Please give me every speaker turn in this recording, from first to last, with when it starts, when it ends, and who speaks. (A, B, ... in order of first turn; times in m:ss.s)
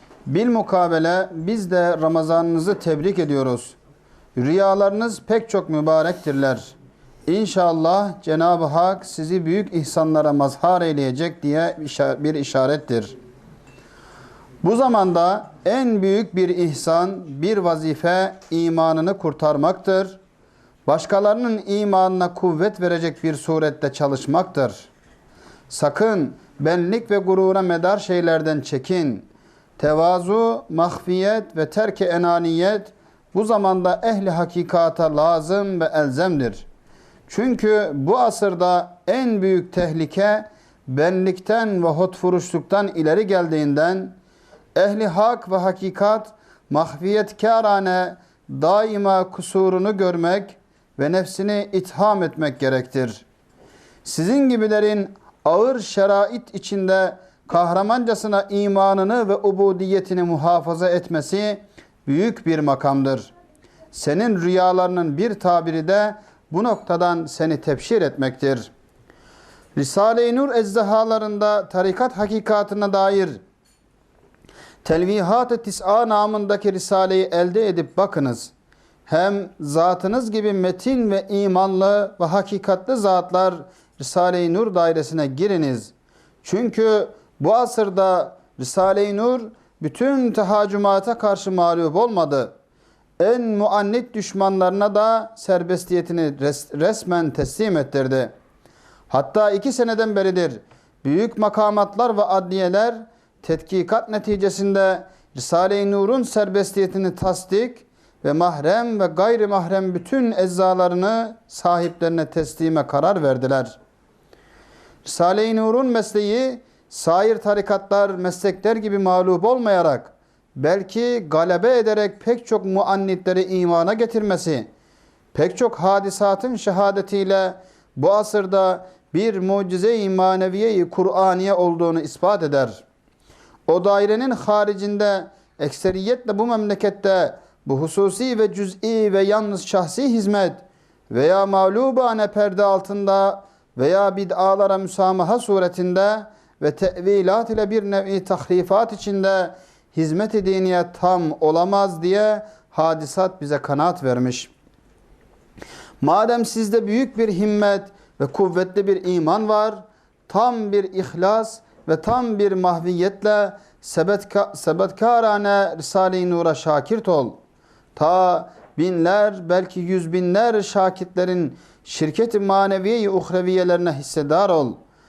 0:00.3-0:03.8 A
0:04.4-0:06.7 A
0:07.3-0:13.1 A
0:14.6-0:20.2 A
0:20.8-0:24.9 A
0:25.7-0:29.3 A
0:29.8-0:36.6 A
0:37.3-0:44.2 A
0:44.7-0:53.2 A
0:54.0-1:03.3 A
1:03.9-1:08.7 A
1:09.7-1:13.4 A
1:14.8-1:18.5 A
1:19.1-1:25.9 A
1:26.4-1:32.5 A
1:33.2-1:38.3 A
1:39.1-1:53.8 A
1:55.0-2:04.7 A
2:05.3-2:12.8 A
2:13.7-2:34.5 A
2:36.0-2:47.4 A
2:48.0-2:54.8 A